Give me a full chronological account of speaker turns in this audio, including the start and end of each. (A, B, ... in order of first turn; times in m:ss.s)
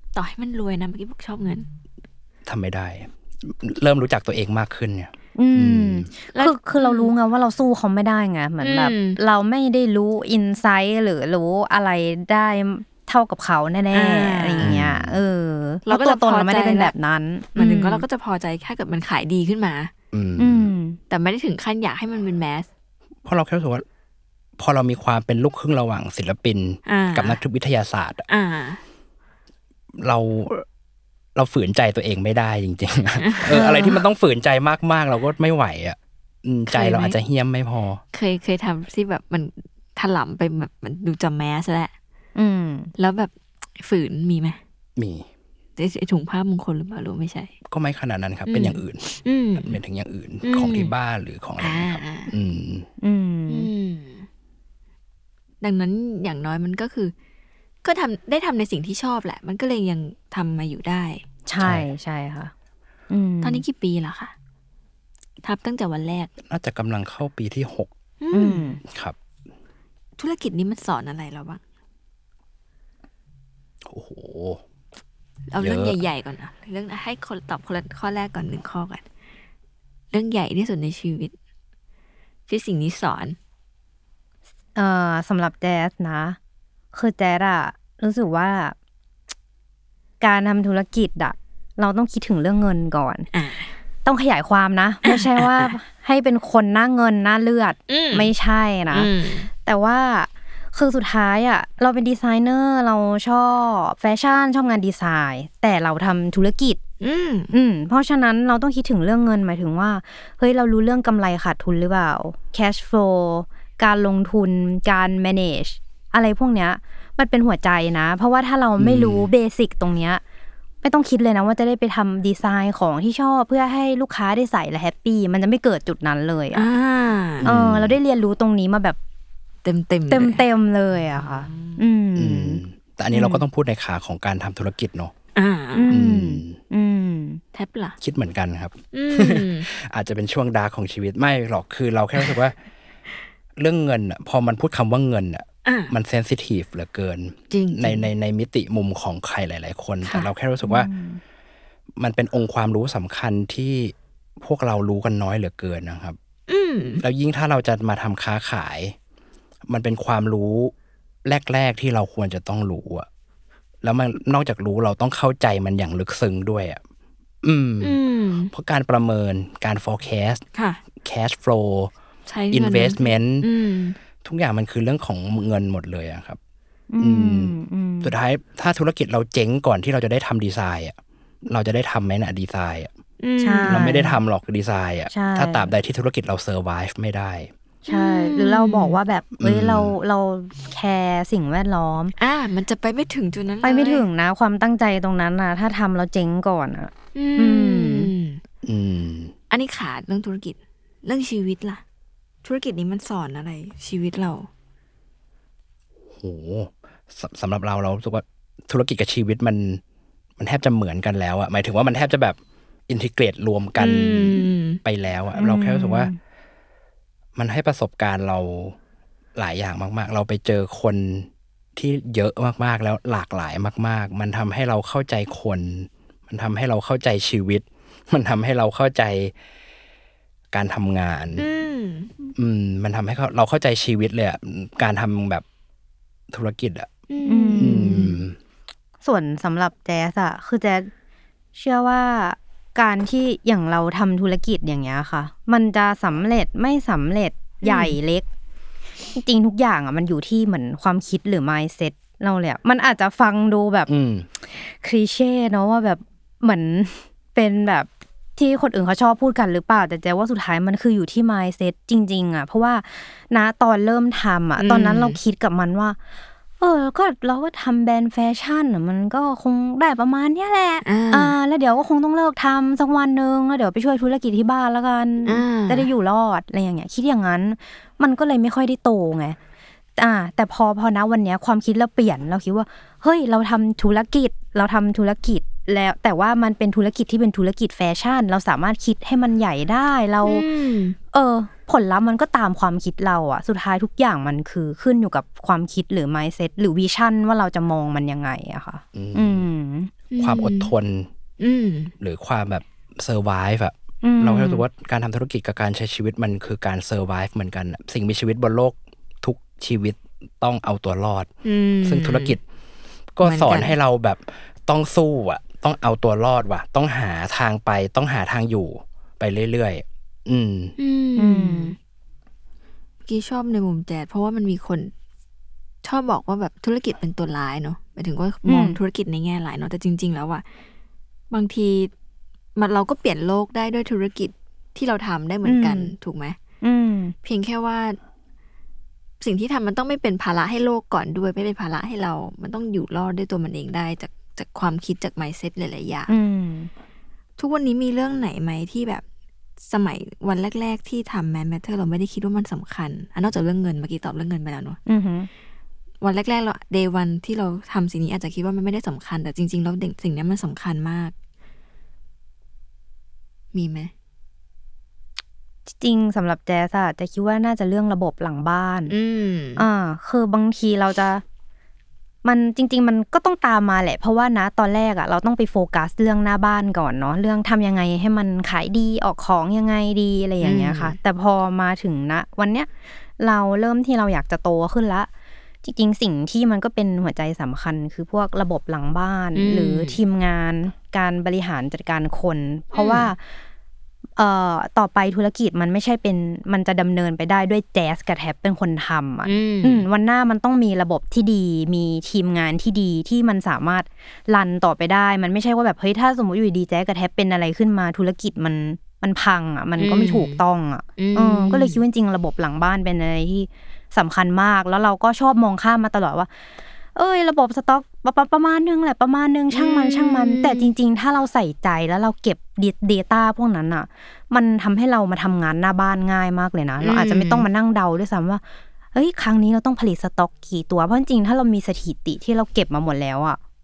0:00.1-0:01.7 A
0:02.4-0:06.1 B
0:05.4-0:18.0 C
0:06.3-0:07.1 A
0:08.6-0:09.2 A
0:13.9-0:14.7 A
0:14.6-0:15.2 B
0:15.8-0:16.9 A
0:17.6-0:19.9 A
0:20.1-0:20.7 B
0:20.4-0:21.0 C
0:21.1-0:22.7 A
0:23.2-0:23.8 B
0:24.6-0:28.2 B
0:26.8-0:27.4 A
0:28.3-0:28.8 A
0:30.0-0:30.6 B
0:31.3-0:38.0 B
0:33.2-0:33.7 A
0:33.5-0:34.0 C
0:36.7-0:37.2 A
0:38.1-0:41.9 A
0:42.4-0:42.9 C
0:43.0-0:44.6 A
0:45.0-0:45.3 B
0:45.8-0:47.5 A
0:47.7-0:49.0 B
0:48.5-0:49.8 A
0:49.6-0:52.9 B
0:50.4-0:50.9 A
0:51.6-0:52.3 A
0:53.0-0:53.7 C
0:53.5-0:54.3 A
0:55.6-0:57.1 A
0:57.8-1:01.2 A
1:01.5-1:02.5 C
1:01.6-1:01.9 B
1:03.1-1:03.6 C
1:03.4-1:04.3 A
1:05.4-1:06.3 A
1:06.4-1:07.9 B
1:08.2-1:08.6 A
1:08.3-1:08.8 C
1:08.8-1:09.2 B
1:10.2-1:11.6 A
1:13.8-1:14.6 B
1:15.5-1:19.0 A
1:15.6-1:16.0 B
1:20.1-1:21.3 A
1:22.5-1:23.4 A
1:24.8-1:26.4 C
1:26.9-1:28.7 C
1:30.2-1:33.3 C
1:33.3-1:33.7 A
1:34.0-1:46.8 C
1:35.0-1:35.7 A
1:37.9-1:38.3 A
1:38.9-1:39.5 A
1:47.0-1:47.5 A
1:47.5-2:00.2 C
1:58.8-1:59.3 B
2:00.8-2:06.6 C
2:06.5-2:07.5 A
2:07.4-2:08.0 B
2:07.4-2:09.0 C
2:09.6-2:10.4 A
2:10.1-2:12.6 C
2:11.1-2:11.8 A
2:12.2-2:15.1 B
2:13.1-2:13.4 A
2:15.4-2:15.9 A
2:15.7-2:17.4 C
2:15.9-2:16.6 B
2:17.5-2:18.0 A
2:18.0-2:22.6 B
2:18.9-2:19.7 A
2:23.6-2:30.9 B
2:25.6-2:25.9 A
2:27.5-2:28.1 A
2:30.0-2:30.3 A
2:30.6-2:31.2 C
2:32.0-2:36.2 B
2:36.5-2:37.0 A
2:37.0-2:38.9 B
2:39.7-2:40.7 B
2:41.2-2:43.1 B
2:43.8-2:46.8 B
2:47.4-2:48.0 B
2:47.8-2:48.5 A
2:48.5-2:50.4 B
2:50.5-2:50.8 A
2:51.0-2:51.9 B
2:52.3-2:54.0 A
2:52.5-2:53.5 B
2:54.2-2:56.4 B
2:56.9-2:58.1 C
2:57.0-3:02.9 B
3:03.2-3:04.0 A
3:03.4-3:04.2 C
3:03.7-3:07.5 B
3:05.1-3:05.7 C
3:07.8-3:09.0 A
3:07.8-3:12.1 C
3:09.4-3:09.9 B
3:12.2-3:14.0 A
3:13.6-3:18.1 C
3:17.1-3:18.4 A
3:18.6-3:19.3 B
3:19.5-3:21.8 A
3:22.4-3:24.5 A
3:26.1-3:29.8 B
3:30.4-3:36.1 B
3:33.8-3:34.8 A
3:35.4-3:36.2 C
3:37.4-3:38.8 B
3:39.4-3:49.3 B
3:50.5-3:51.4 B
3:51.4-3:52.1 A
3:52.3-3:55.4 B
3:56.3-3:56.9 B
3:57.1-3:58.2 A
3:57.2-3:58.1 C
3:57.6-3:58.4 B
3:59.0-4:00.9 C
4:01.6-4:08.2 C
4:07.6-4:08.0 A
4:09.1-4:13.9 C
4:13.9-4:14.3 B
4:14.5-4:26.0 C
4:24.6-4:25.2 A
4:26.6-4:39.4 C
4:30.8-4:31.3 A
4:35.2-4:35.9 A
4:40.0-4:50.4 C
4:50.2-4:51.0 A
4:51.1-4:59.9 C
4:58.9-4:59.4 B
5:00.1-5:00.7 A
5:00.2-5:01.1 B
5:01.4-5:01.9 A
5:02.0-5:11.3 B
5:04.0-5:04.6 C
5:11.4-5:12.4 A
5:11.8-5:12.4 B
5:13.2-5:20.7 B
5:13.2-5:13.8 A
5:20.8-5:21.8 A
5:21.2-5:21.7 C
5:23.0-5:24.9 A
5:25.8-5:30.4 A
5:28.4-5:28.8 C
5:31.3-5:31.9 A
5:32.6-5:36.4 A
5:35.4-5:35.9 C
5:36.6-5:37.1 C
5:37.2-5:38.0 A
5:39.2-5:46.1 A
5:46.1-5:46.7 C
5:47.4-5:49.0 A
5:49.7-5:54.8 A
5:54.9-5:55.3 C
5:56.0-6:01.1 A
6:03.5-6:03.9 A
6:05.7-6:08.9 C
6:08.9-6:09.6 A
6:09.6-6:11.2 C
6:12.2-6:25.1 C
6:20.4-6:21.0 A
6:25.6-6:33.2 C
6:29.3-6:30.0 A
6:32.7-6:33.1 A
6:34.2-6:56.3 C
6:39.2-6:39.8 A
6:49.8-6:50.4 A
6:51.0-6:51.8 A
6:56.9-7:08.4 C
6:59.5-7:00.7 A
7:06.8-7:07.4 A
7:08.9-7:13.4 C